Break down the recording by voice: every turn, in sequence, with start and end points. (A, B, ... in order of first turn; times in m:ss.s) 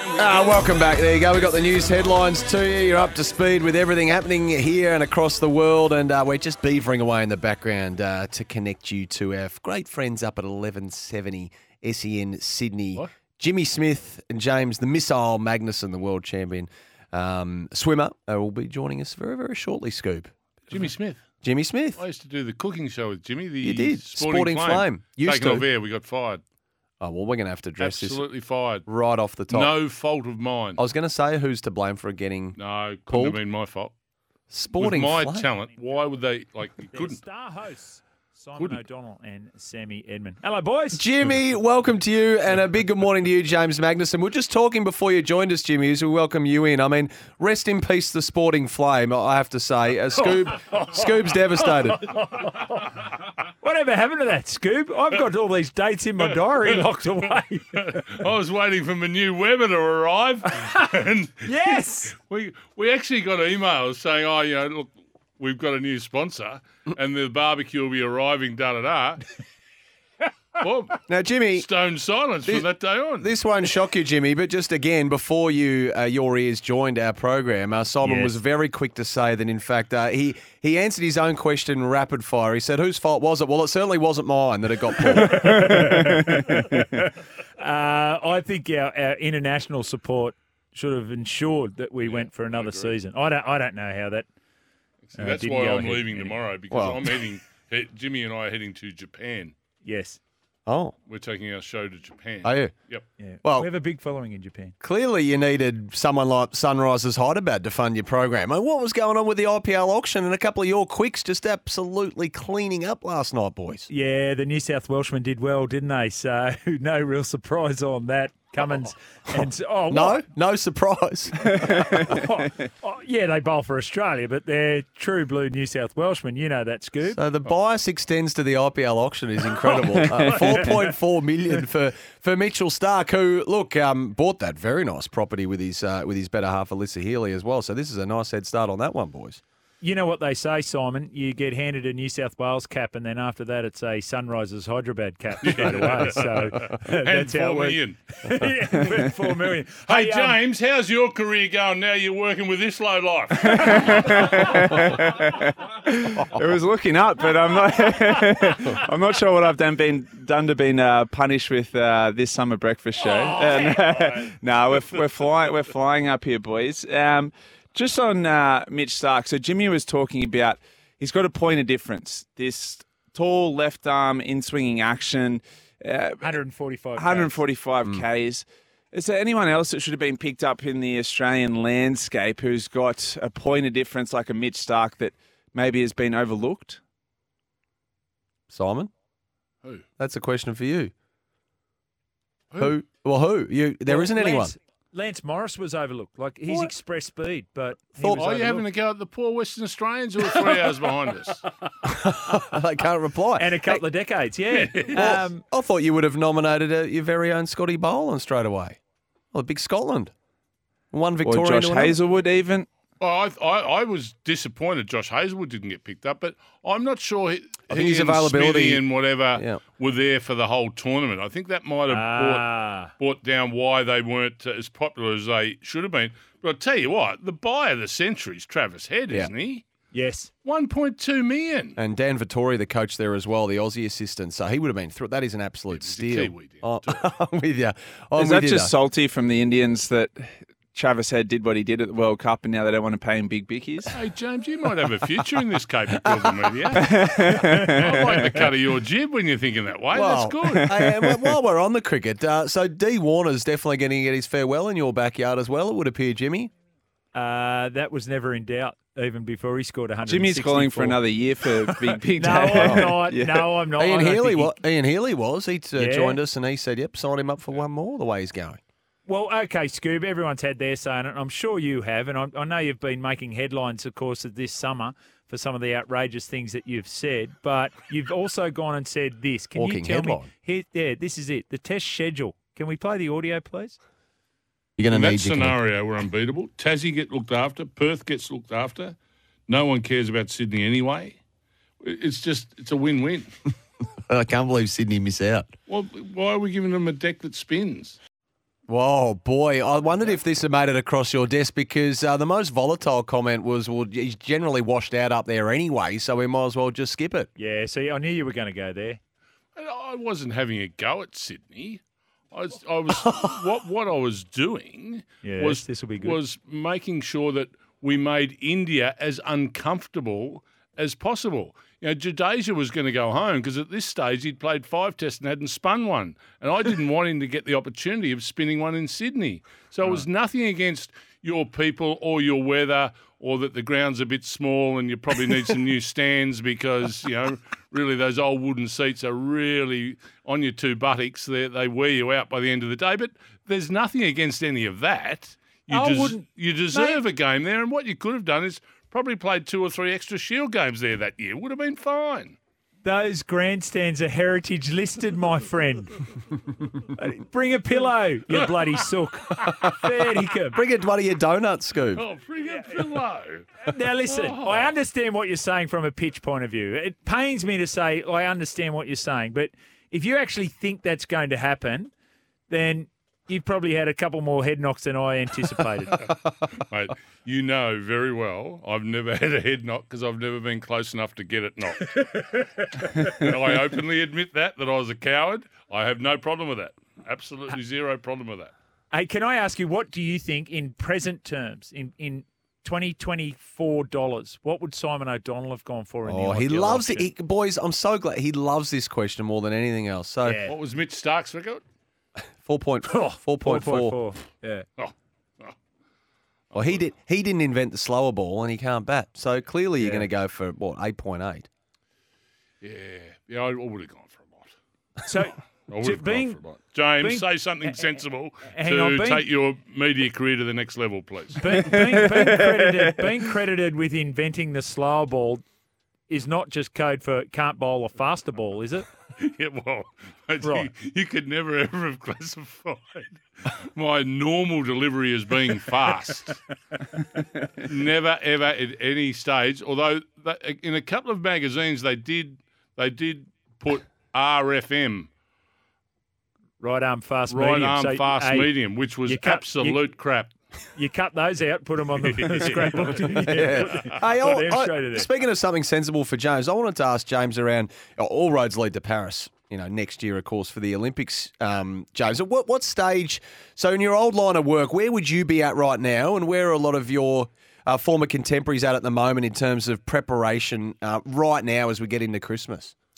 0:00.2-0:20.8 A
0:20.7-0:21.2 B
0:21.4-0:22.0 A
0:22.0-0:26.4 B
0:23.6-0:25.7 A
0:27.0-0:28.2 A
0:27.8-0:28.8 B
0:28.8-0:29.7 A
0:29.5-0:30.8 B
0:30.8-0:33.4 A
0:32.6-0:33.9 B
0:34.5-0:35.5 A
0:34.8-0:37.2 B
0:36.9-0:41.0 C
0:40.9-0:52.1 A
0:50.2-0:52.6 C
0:53.6-0:58.1 C
0:56.3-0:56.8 B
0:57.7-1:09.2 B
1:01.4-1:02.2 C
1:10.6-1:11.0 B
1:11.1-1:11.7 A
1:11.5-1:13.3 B
1:12.4-1:25.9 A
1:18.0-1:18.3 C
1:25.1-1:34.2 C
1:25.3-1:25.8 D
1:32.0-1:32.9 B
1:35.1-1:39.5 B
1:35.1-1:36.4 C
1:36.7-1:37.0 A
1:39.8-1:40.2 C
1:40.7-1:40.9 A
1:41.1-1:43.0 B
1:42.4-1:42.7 A
1:43.2-1:44.7 C
1:43.4-1:43.7 A
1:44.8-1:53.9 A
1:53.9-2:00.2 C
1:59.3-2:01.8 A
2:01.6-2:07.2 C
2:07.0-2:19.4 A
2:09.6-2:10.3 C
2:10.0-2:10.7 D
2:19.8-2:30.4 C
2:25.4-2:28.5 B
2:29.9-2:34.4 B
2:33.5-2:56.4 D
2:43.0-2:44.1 B
2:56.2-2:57.4 C
2:57.0-3:06.8 D
3:08.5-3:08.9 A
3:10.0-3:10.9 A
3:12.5-3:12.8 B
3:12.6-3:14.5 A
3:13.9-3:18.5 C
3:18.0-3:18.6 A
3:18.1-3:21.4 B
3:21.8-3:23.8 A
3:23.4-3:25.4 C
3:24.5-3:25.1 B
3:24.9-3:28.8 A
3:29.3-3:30.1 A
3:30.9-3:32.0 A
3:31.2-3:32.7 D
3:33.0-3:42.4 B
3:37.7-3:39.6 A
3:41.9-3:42.9 C
3:43.0-3:49.6 B
3:49.9-3:50.3 C
3:50.4-3:51.8 B
3:51.8-3:58.7 A
3:55.7-3:57.1 B
3:58.2-4:03.9 D
4:03.9-4:10.7 B
4:06.8-4:08.2 D
4:09.9-4:16.5 A
4:10.6-4:11.3 D
4:17.1-4:21.0 C
4:20.0-4:23.5 D
4:22.1-4:24.6 C
4:22.6-4:23.0 A
4:23.8-4:28.6 A
4:25.7-4:26.2 C
4:29.0-4:43.8 C
4:39.5-4:40.3 A
4:44.8-4:45.6 A
4:44.9-4:49.0 B
4:49.5-4:51.2 B
4:51.8-4:53.3 B
4:54.1-4:55.5 A
4:55.7-4:58.0 B
4:58.7-5:07.3 A
5:07.4-5:09.0 C
5:09.5-5:52.4 B
5:12.9-5:13.3 A
5:15.2-5:16.2 C
5:45.7-5:47.0 C
5:52.8-5:56.0 C
5:56.9-6:00.6 C
5:58.7-5:59.7 B
6:00.5-6:02.0 A
6:01.9-6:03.5 B
6:03.6-6:11.9 C
6:04.1-6:04.7 B
6:12.5-6:16.0 C
6:16.7-6:28.5 B
6:28.9-6:37.1 C
6:36.0-6:40.5 A
6:40.2-6:40.5 C
6:40.5-6:41.6 B
6:42.4-6:44.0 A
6:42.8-6:44.6 C
6:44.8-6:45.5 B
6:46.5-6:51.5 A
6:49.8-6:50.1 C
6:52.6-6:54.5 B
6:55.0-6:56.4 C
6:55.7-7:01.4 B
6:57.0-6:57.9 C
6:58.4-6:59.2 C
7:01.4-7:05.4 C
7:01.6-7:03.0 D
7:06.1-7:08.9 C
7:09.2-7:16.4 B
7:10.4-7:10.7 C
7:17.5-7:25.1 B
7:26.6-7:28.5 C
7:27.3-7:30.3 B
7:29.0-7:29.8 C
7:30.7-7:35.1 C
7:32.0-7:32.9 B
7:33.2-7:52.7 A